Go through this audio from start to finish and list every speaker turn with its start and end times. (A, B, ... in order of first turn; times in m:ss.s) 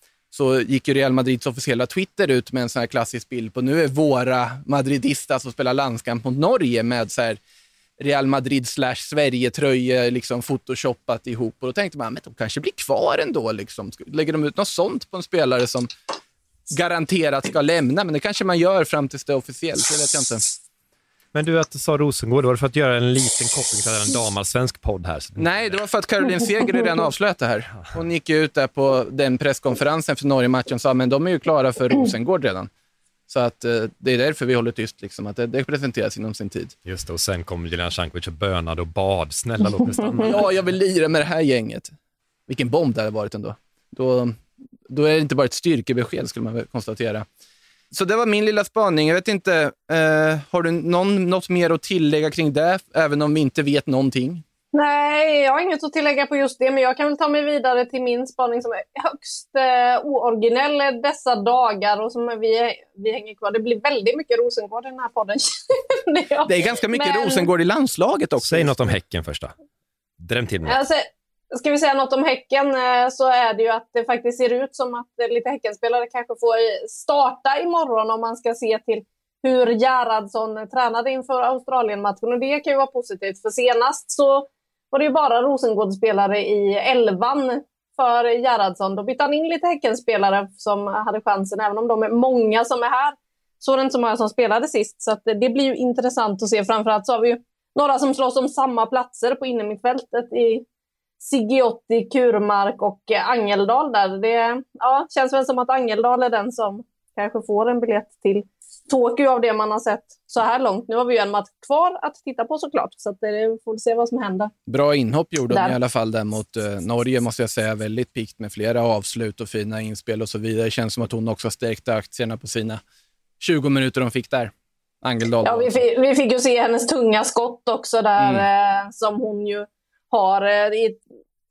0:00.3-0:07.4 A
0:08.0-0:15.9 A
0:16.7-0:20.4 A
0:21.3-0:25.8 B
0:25.4-0:32.7 A
0:33.3-0:36.7 A
0:36.8-0:40.5 B
0:40.2-0:41.9 A
0:42.5-0:47.2 A
0:47.9-0:54.4 A
0:54.7-1:07.5 C
1:06.4-1:08.9 A
1:08.4-1:09.5 B
1:10.2-1:10.8 B
1:10.6-1:40.6 C
1:41.2-1:54.5 C
1:54.7-2:02.8 A
2:03.4-2:05.8 A
2:05.4-2:11.0 C
2:08.2-2:08.4 A